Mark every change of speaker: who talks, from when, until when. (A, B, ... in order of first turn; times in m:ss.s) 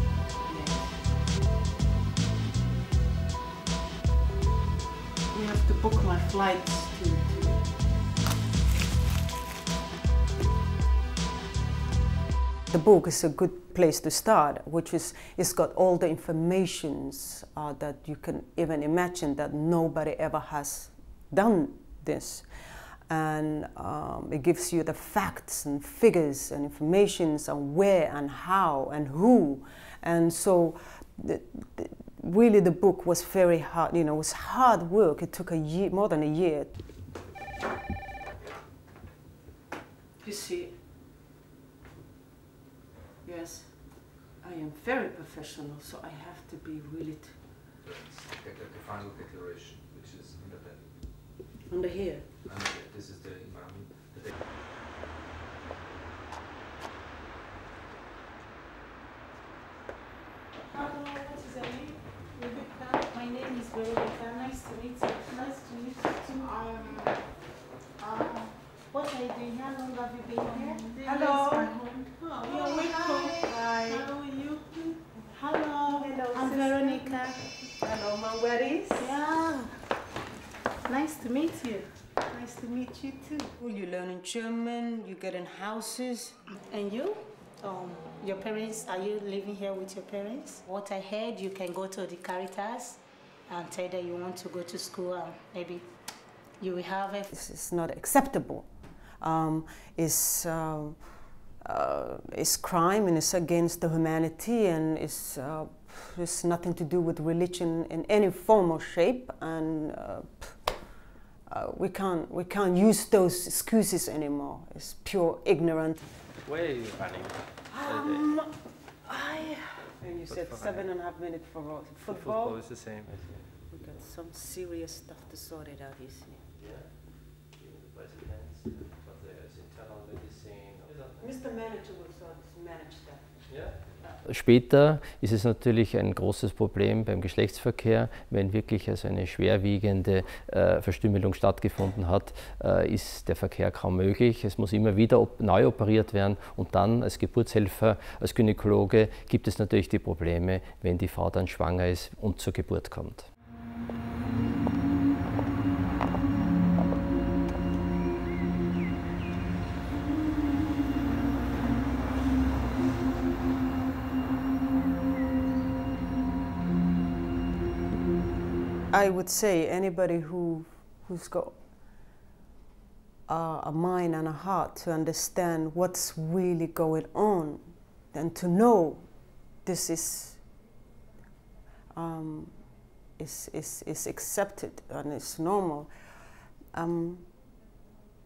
0:00.4-0:01.1 A
0:05.3-0:07.7 A
0:12.7-0:36.7 A
0:40.2-0:40.8 A
0:43.2-0:47.4 A
0:47.8-0:51.2 B
0:51.6-0:52.3 A
0:52.4-0:54.3 B
1:00.7-1:07.2 C
1:08.0-1:17.4 C
1:10.5-1:14.1 A
1:15.3-1:19.2 A
1:18.9-1:19.8 C
1:20.8-1:22.0 C
1:22.2-1:26.4 A
1:26.6-1:35.9 C
1:36.6-1:37.3 C
1:37.3-1:38.7 A
1:39.2-1:56.0 A
1:56.4-1:58.3 D
1:57.7-2:02.6 A
2:00.2-2:00.9 D
2:02.0-2:03.4 D
2:03.7-2:06.4 A
2:06.6-2:11.3 D
2:11.2-2:13.4 A
2:13.5-2:13.8 D
2:14.2-2:33.3 E
2:48.9-2:51.6 A
2:53.3-3:00.5 A
3:01.9-3:05.9 A
3:06.7-3:07.3 A